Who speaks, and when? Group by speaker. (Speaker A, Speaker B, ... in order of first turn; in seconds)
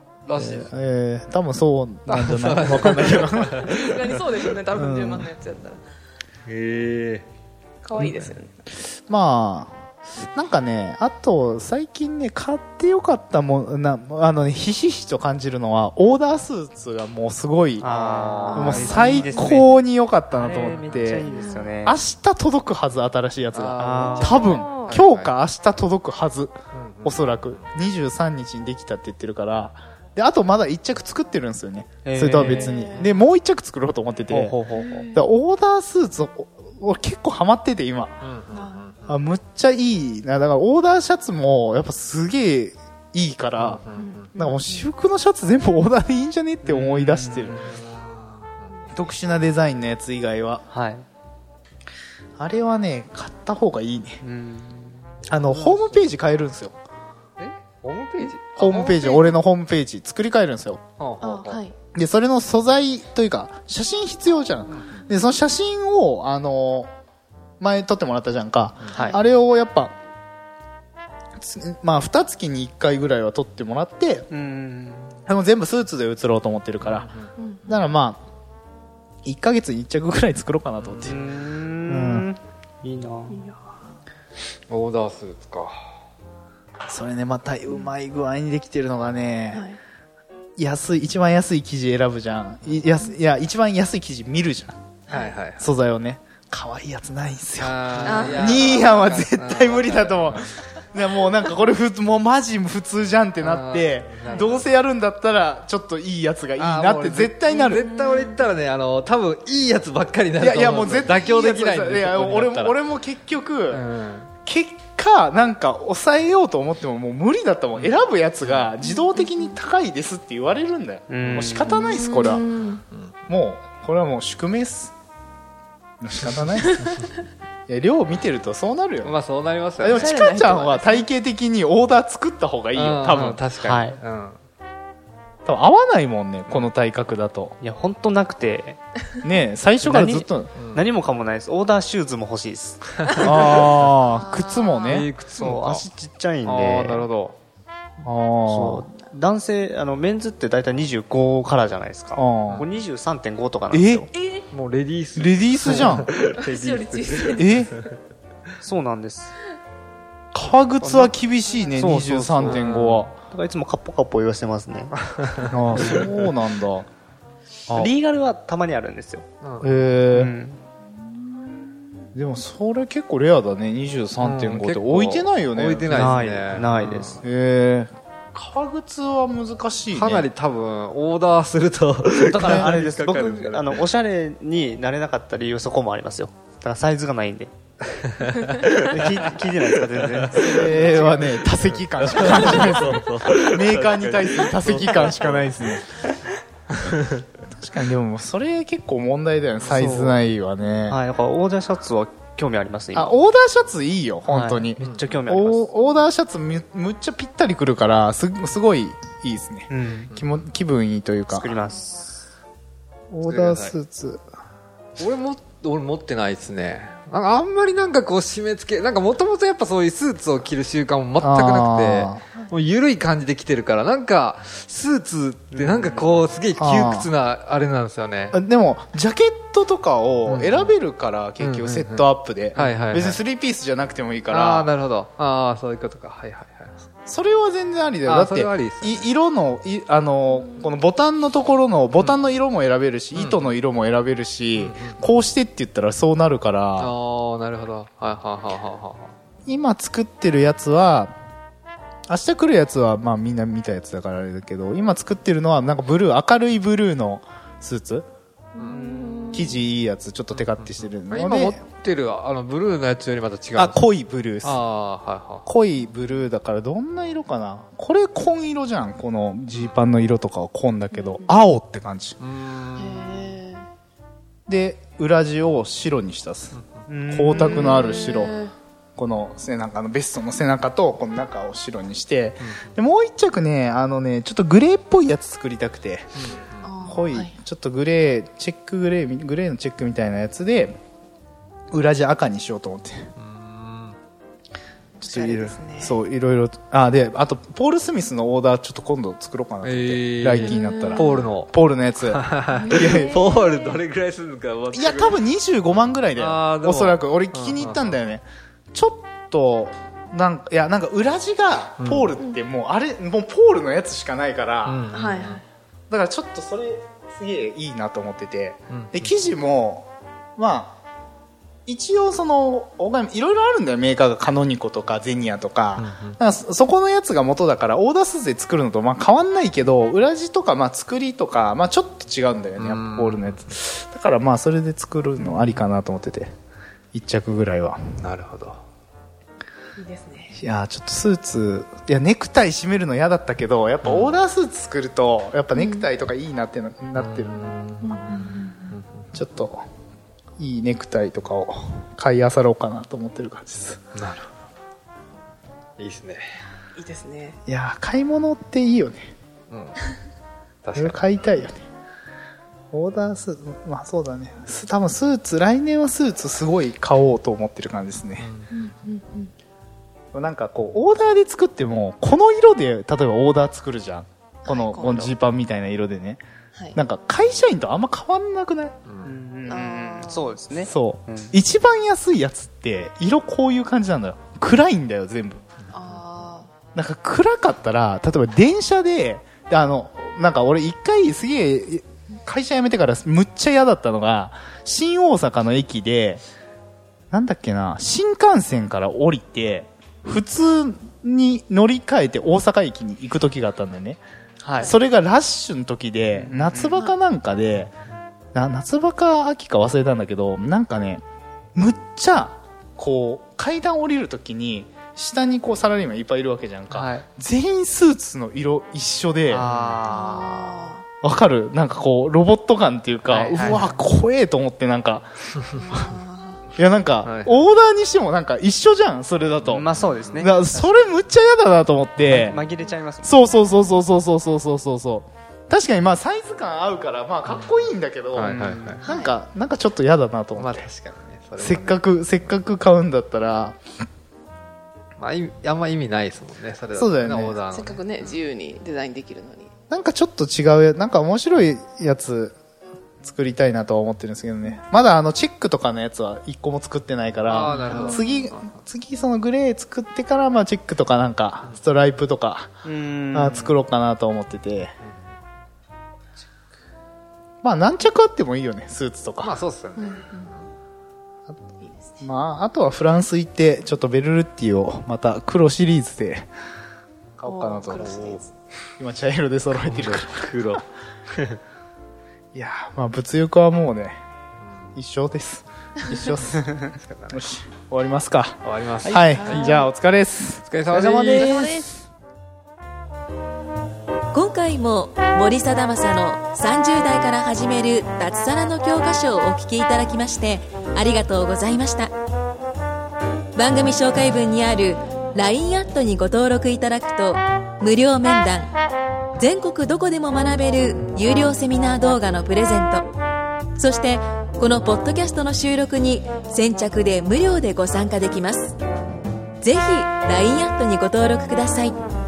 Speaker A: 0.2-0.7, 2.1-4.5, 6.5-7.2, 17.8-19.6, 23.5-25.3, 26.7-27.6, 38.2-39.2, 43.6-44.3, 47.4-48.7, 55.5-56.0, 57.4-59.4, 61.0-61.6, 64.7-65.0, 76.8-77.3, 80.8-81.2, 84.7-85.8, 95.1-95.7, 97.6-100.6, 103.4-104.7, 106.6-112.8, 113.7-114.3, 117.7-118.7, 129.0-130.1, 132.7-134.4, 140.6-140.8, 143.0-143.9, 144.9-145.8, 146.4-147.4, 154.5-157.9, 160.8-161.1, 162.4-163.1, 165.1-166.2, 169.4-169.7, 174.2-177.2, 179.9-183.8, 188.1-188.5, 190.2-190.5, 192.0-195.6, 196.8-197.2, 199.6-200.0, 204.8-205.1, 213.3-213.8, 215.0-228.4, 230.2-230.7, 231.4-233.2, 234.3-236.8, 238.0-239.1, 243.1-243.5, 244.6-245.0, 246.8-249.1, 260.3-263.8, 264.4-265.5, 272.2-273.3, 276.5-276.8, 282.4-282.7, 286.1-286.7, 293.1-294.0, 299.6-301.5, 302.0-305.2, 306.1-308.0, 311.8-312.1, 314.6-315.4, 318.7-319.1, 325.8-326.2, 332.6-333.4, 335.2-335.6, 338.0-338.6, 343.8-344.1, 346.9-349.1, 353.9-354.3, 355.8-356.2, 359.5-359.8, 360.6-361.1, 368.2-368.5, 378.9-379.1, 385.7-386.0, 419.4-419.8, 427.0-427.4, 429.5-430.3, 437.2-437.6, 438.1-438.8, 440.3-441.8, 445.0-448.1, 457.3-458.6, 469.2-470.5, 477.8-478.2, 479.5-480.6, 486.8-487.2, 488.4-489.5, 490.4-491.7
Speaker B: 0.3-3.6, 4.8-5.2, 9.1-9.8, 10.3-17.9, 18.5-21.3, 21.8-34.6, 35.1-38.1, 39.1-43.8, 44.4-47.6, 48.9-50.6, 52.4-54.2, 55.3-56.8, 58.5-60.8, 61.9-66.9, 67.6-69.9, 71.4-74.3, 75.3-77.1, 77.7-78.2, 79.2-81.2, 81.9-82.3, 86.9-89.7, 90.6-94.8, 95.6-107.8, 110.3-113.8, 114.4-122.5, 123.3-124.9, 126.0-126.8, 127.7-129.1, 129.8-133.4, 135.4-137.5, 139.2-140.5, 143.2-145.1, 148.0-148.9, 152.1-152.7, 153.7-154.1, 155.2-156.2, 157.3-157.7, 160.3-163.1, 165.5-166.9, 169.6-170.3, 172.1-176.2, 177.2-180.3, 182.3-182.7, 190.3-195.9, 197.4-201.0, 202.9-211.5, 213.1-214.2, 221.2-222.2, 226.6-227.1, 228.3-234.7, 237.1-246.9, 249.4-251.1, 252.1-258.1, 259.3-261.6, 263.5-264.6, 265.4-272.2, 274.5-278.4, 279.0-286.2, 286.8-290.8, 291.7-293.1, 295.0-303.3, 304.7-314.8, 315.9-320.8, 321.7-336.3, 336.9-337.8, 340.4-347.5, 349.1-349.6, 350.4-353.8, 357.5-359.1, 360.7-361.6, 362.7-368.3, 370.1-376.2, 376.7-378.8, 380.6-385.4, 386.7-396.2, 397.1-404.0, 404.6-407.7, 408.3-411.0, 411.5-419.4, 421.0-425.1, 426.6-432.4, 433.0-440.7, 441.4-443.6, 446.7-447.4, 449.7-452.4, 453.0-462.5, 463.1-464.7, 467.4-469.3, 472.0-476.2, 477.2-478.1, 478.8-480.6, 482.3-484.0, 484.8-490.4
Speaker C: 3.6-5.8, 7.8-8.6, 18.5-18.9, 21.2-21.7, 24.2-25.0, 32.4-33.1, 34.8-35.2, 38.5-38.8, 43.9-44.9, 61.2-61.8, 77.4-77.8, 83.3-83.6, 89.5-89.8, 95.1-95.4, 98.0-98.7, 104.2-104.6, 107.7-108.5, 118.9-119.4, 121.7-122.8, 126.6-127.0, 129.8-131.1, 144.2-145.1, 154.2-154.4, 156.2-157.5, 258.6-259.6, 270.9-271.2, 272.8-273.6, 277.4-278.5, 286.6-287.3, 295.0-296.0, 300.4-301.3, 302.5-303.8, 314.9-315.4, 339.8-340.4, 345.6-345.9, 347.8-348.8, 356.8-357.4, 368.5-369.3, 374.4-375.1, 379.5-380.3, 385.7-386.5, 419.9-420.8, 425.5-426.4, 438.8-439.1, 447.5-449.5, 457.5-458.3, 469.8-470.3, 471.6-472.0, 477.2-478.3, 489.2-489.7, 491.1-491.7
Speaker D: 17.8-19.7, 20.3-22.0, 23.8-24.4, 32.0-33.0, 34.3-35.0, 46.6-47.6, 50.7-51.0, 54.2-55.1, 68.9-69.2, 74.3-75.2, 81.0-83.4, 121.1-121.7, 133.6-134.0, 137.6-138.8, 139.8-142.8, 145.3-147.1, 148.4-154.1, 158.6-159.3, 161.7-162.7, 163.3-164.9, 165.8-166.0, 167.7-169.2, 170.1-170.6, 175.9-177.2, 182.2-187.5, 188.6-191.4, 192.2-193.0, 199.7-200.2, 200.9-203.1, 204.3-205.7, 209.7-210.1, 211.3-212.2, 225.5-226.2, 258.7-259.5, 276.9-277.8, 379.0-381.4, 404.4-404.8, 406.2-406.5, 416.7-417.1, 419.3-420.6, 423.1-423.7, 429.5-430.9, 432.0-433.3, 438.5-438.7, 462.6-463.5, 488.8-489.3, 490.7-491.6
Speaker E: 494.1-501.9, 503.3-508.5, 509.2-512.8, 513.6-518.5, 519.4-521.7